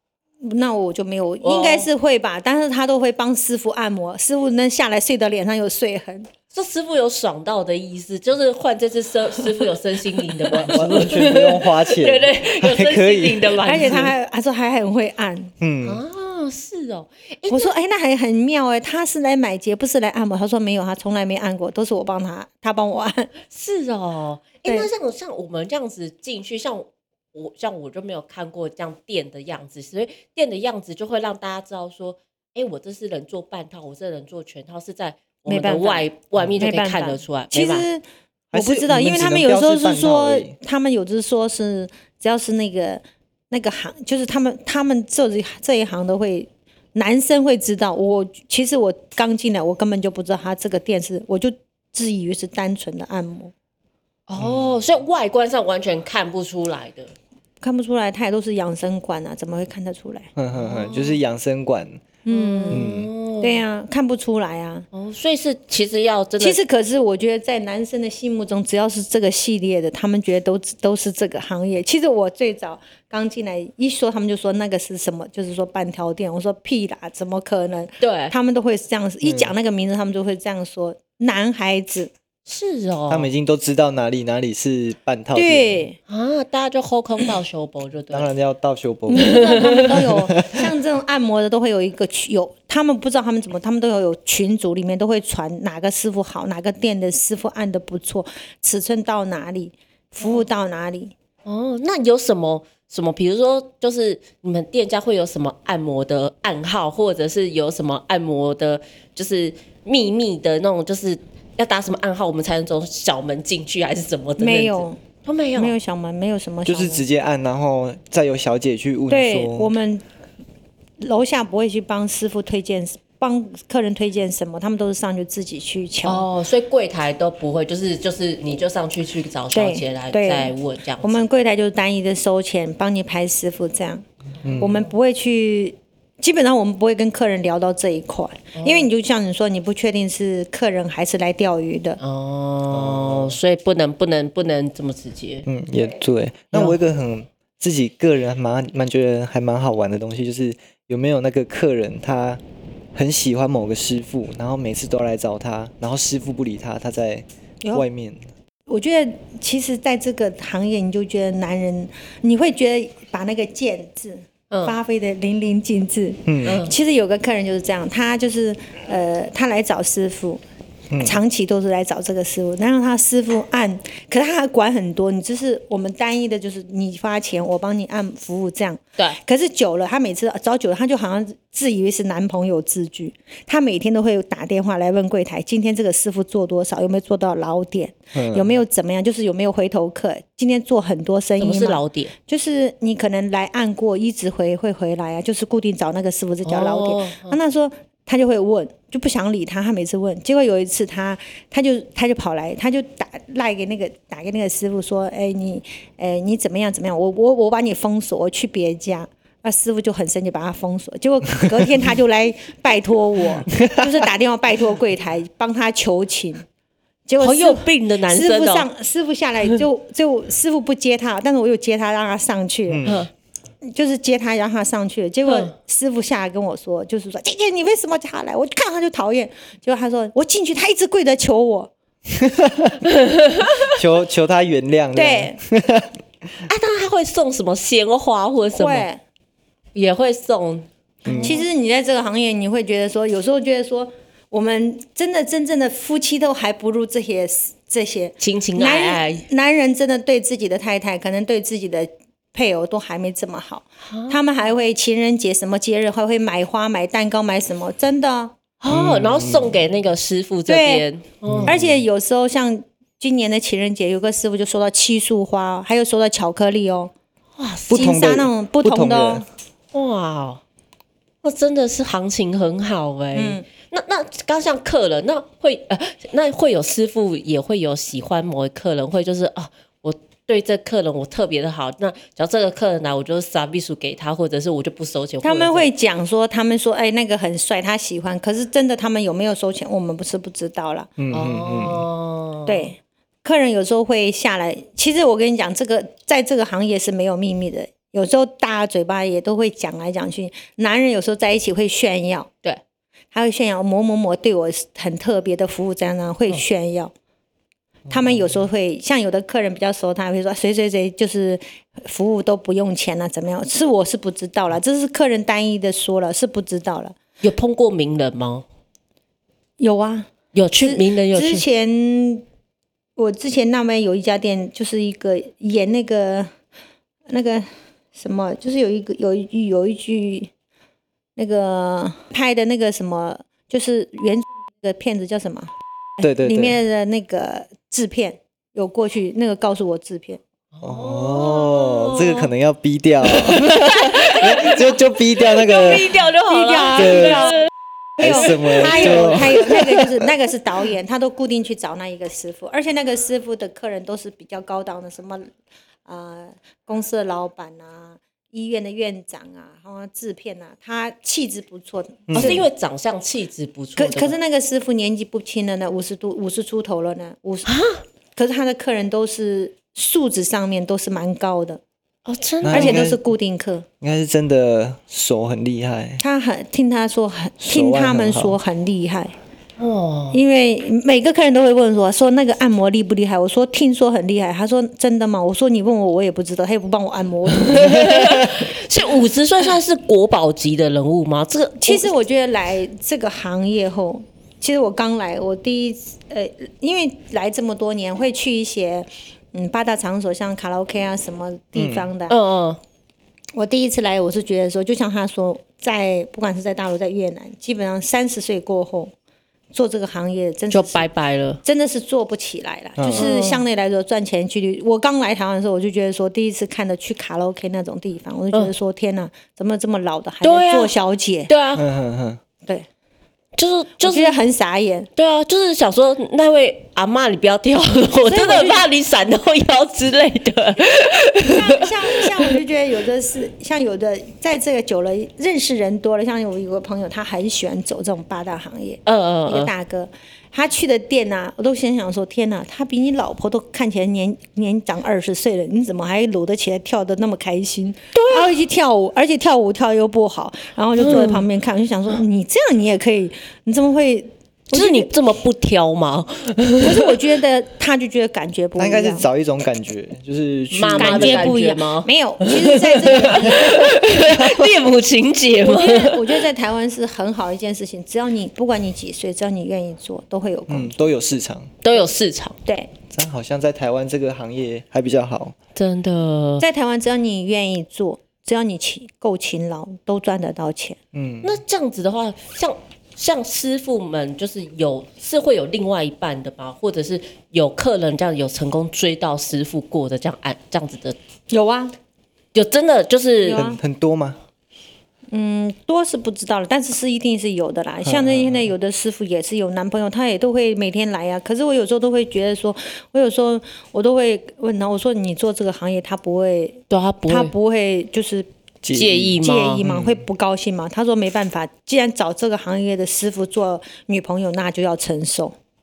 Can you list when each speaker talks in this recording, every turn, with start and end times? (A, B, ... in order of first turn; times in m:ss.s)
0:00.4-0:06.3 A
0:01.4-0:01.9 B
0:06.5-0:14.1 B
0:10.6-0:14.0 C
0:13.6-0:15.5 A
0:15.6-0:16.0 C
0:15.8-0:17.7 B
0:17.5-0:23.3 A
0:23.5-0:37.8 B
0:35.4-0:36.0 A
0:36.6-0:38.0 A
0:38.5-0:40.5 C
0:38.5-0:53.5 A
0:54.3-0:57.1 B
0:54.4-0:54.7 C
0:57.6-1:00.3 A
1:00.4-1:02.1 C
1:00.5-1:01.2 B
1:02.2-1:02.9 A
1:02.3-1:03.6 B
1:02.7-1:03.1 C
1:03.4-1:04.9 A
1:04.9-1:06.6 B
1:06.4-1:22.1 A
1:18.0-1:18.3 B
1:19.2-1:19.5 C
1:22.4-1:23.3 B
1:23.1-1:25.8 C
1:25.3-1:26.0 A
1:26.1-1:28.3 B
1:28.1-1:30.7 C
1:29.1-1:41.1 A
1:29.1-1:29.9 B
1:41.4-1:55.7 B
1:54.4-1:55.0 A
1:55.6-1:57.0 A
1:56.6-1:59.7 C
1:59.1-2:00.0 A
2:01.0-2:06.3 A
2:06.0-2:11.2 B
2:09.5-2:14.0 A
2:14.4-2:14.8 C
2:14.6-2:22.0 A
2:18.5-2:18.9 B
2:22.0-2:25.4 B
2:22.7-2:23.4 C
2:25.4-2:32.4 C
2:26.5-2:26.8 B
2:32.9-2:38.2 C
2:38.7-2:50.4 A
2:44.5-2:44.8 B
2:46.3-2:46.6 C
2:46.4-2:46.7 B
2:50.9-2:51.2 C
2:51.0-3:36.4 A
3:08.1-3:08.6 C
3:11.4-3:12.1 B
3:16.4-3:17.4 B
3:33.5-3:33.9 C
3:37.0-3:42.8 A
3:37.2-3:38.7 B
3:42.7-3:43.1 C
3:42.8-3:43.1 B
3:43.6-3:51.7 A
3:45.2-3:45.5 B
3:52.1-3:52.8 C
3:52.8-3:53.7 B
3:53.7-3:55.9 C
3:54.9-3:55.4 A
3:56.4-3:58.9 B
3:58.5-3:59.0 A
3:59.7-4:01.4 B
4:01.0-4:01.4 C
4:01.1-4:18.3 A
4:08.2-4:09.2 B
4:13.8-4:14.2 B
4:18.6-4:21.6 B
4:18.7-4:19.6 C
4:20.5-4:20.8 A
4:21.2-4:21.8 C
4:21.4-4:26.9 A
4:27.4-4:27.9 B
4:27.7-4:29.2 C
4:27.7-4:29.2 A
4:29.7-4:30.4 B
4:31.2-4:45.7 B
4:33.1-4:33.4 A
4:45.2-4:50.9 A
4:51.0-4:51.8 C
4:51.1-4:52.7 B
4:52.4-5:02.3 A
5:03.1-5:06.9 A
5:07.9-5:17.0 A
5:17.2-5:18.4 B
5:19.6-5:22.2 A
5:20.3-5:21.4 B
5:23.0-5:26.3 A
5:27.1-5:30.3 A
5:31.2-5:35.5 A
5:36.0-5:36.6 C
5:36.2-5:40.2 A
5:40.5-5:42.3 B
5:40.6-5:46.0 C
5:43.0-5:49.6 B
5:46.2-5:47.5 A
5:46.7-5:47.3 C
5:48.0-5:50.0 C
5:48.0-5:55.3 A
5:55.8-6:02.4 A
6:02.1-6:02.4 C
6:02.1-6:04.2 B
6:03.8-6:07.5 A
6:07.4-6:07.8 B
6:08.2-6:11.6 A
6:12.0-6:12.9 B
6:12.4-6:13.0 C
6:12.5-6:13.6 A
6:13.8-6:16.0 C
6:16.0-6:19.1 A
6:17.4-6:18.4 C
6:19.6-6:20.2 B
6:20.1-6:28.2 A
6:27.4-6:31.9 B
6:31.6-6:42.1 A
6:41.5-6:41.9 C
6:42.1-6:42.6 B
6:43.3-6:48.9 A
6:49.5-6:50.8 A
6:50.5-6:51.4 B
6:51.4-7:01.3 A
6:52.8-6:53.1 C
6:52.9-6:53.4 B
7:00.2-7:00.7 B
7:01.3-7:01.6 B
7:01.6-7:02.2 C
7:03.4-7:04.2 B
7:03.8-7:04.9 A
7:05.0-7:12.3 B
7:08.0-7:08.7 A
7:11.2-7:34.9 A
7:18.8-7:19.5 B
7:27.9-7:28.3 B
7:30.8-7:31.2 B
7:34.5-7:36.9 B
7:36.6-7:39.1 A
7:38.6-7:41.4 C
7:40.5-7:46.2 B
7:40.8-7:43.7 A
7:43.0-7:44.5 C
7:45.4-7:50.8 A
7:50.5-7:51.5 C
7:51.6-7:52.4 B
7:52.4-7:52.7 A
7:52.9-7:55.4 C
7:55.5-7:56.4 B
7:56.4-8:00.8 A
8:00.9-8:01.4 C
8:01.2-8:11.0 B
8:11.3-8:11.7 A
8:12.3-8:13.4 B
8:13.2-8:13.6 A
8:13.3-8:14.2 C
8:15.1-8:28.3 A
8:17.8-8:18.5 C
8:26.7-8:27.3 B
8:28.6-8:30.0 C
8:28.7-8:29.6 B
8:29.2-8:35.3 A